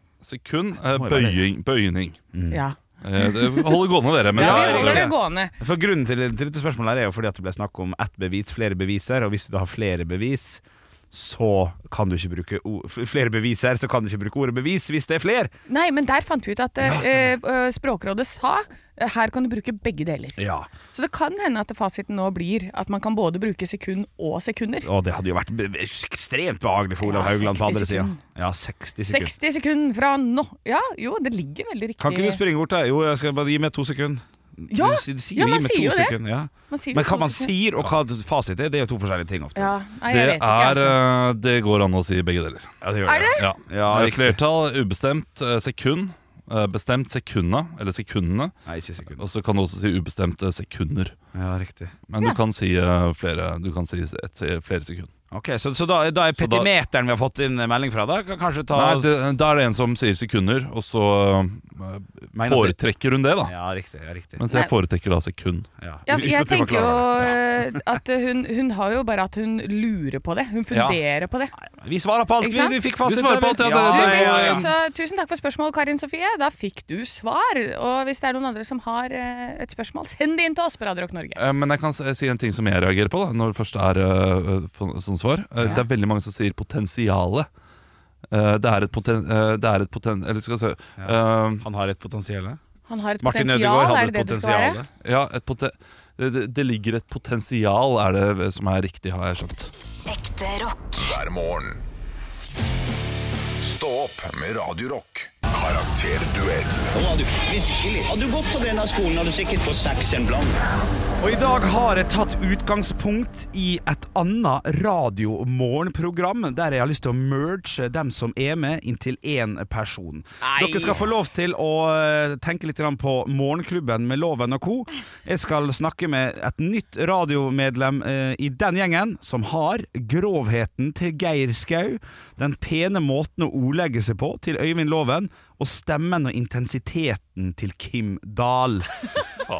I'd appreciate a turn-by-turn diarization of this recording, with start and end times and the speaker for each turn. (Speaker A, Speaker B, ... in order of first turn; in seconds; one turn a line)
Speaker A: 0.2-2.2
Speaker B: 0.9-1.4
Speaker B: 2.3-2.6
Speaker C: 2.5-3.8
Speaker A: 3.0-5.1
Speaker B: 4.3-15.5
Speaker C: 4.4-5.5
Speaker C: 15.7-24.9
Speaker B: 16.8-17.3
Speaker B: 20.4-20.7
Speaker B: 24.8-29.3
Speaker C: 27.0-28.2
Speaker C: 29.1-32.4
Speaker B: 32.0-39.8
Speaker C: 34.7-36.2
Speaker C: 36.7-37.5
Speaker C: 39.5-41.0
Speaker A: 40.1-42.8
Speaker B: 42.8-44.4
Speaker C: 43.1-43.5
Speaker A: 43.4-48.5
Speaker B: 48.7-49.2
Speaker A: 49.1-51.1
Speaker B: 51.3-52.0
Speaker A: 52.1-55.1
Speaker B: 55.3-59.3
Speaker A: 56.4-56.7
Speaker A: 58.7-63.5
Speaker B: 62.3-62.8
Speaker B: 63.5-64.4
Speaker A: 64.4-65.7
Speaker B: 65.8-67.3
Speaker C: 66.1-71.5
Speaker A: 70.7-71.0
Speaker B: 71.6-74.7
Speaker C: 72.4-72.8
Speaker A: 73.0-74.7
Speaker C: 73.8-81.4
Speaker A: 81.4-87.5
Speaker A: 88.3-91.7
Speaker B: 91.0-92.6
Speaker C: 92.9-94.8
Speaker B: 93.2-94.9
Speaker A: 95.0-99.7
Speaker D: 100.8-101.8
Speaker D: 103.6-106.9
Speaker E: 106.9-110.6
Speaker B: 111.2-139.0
Speaker C: 120.4-121.0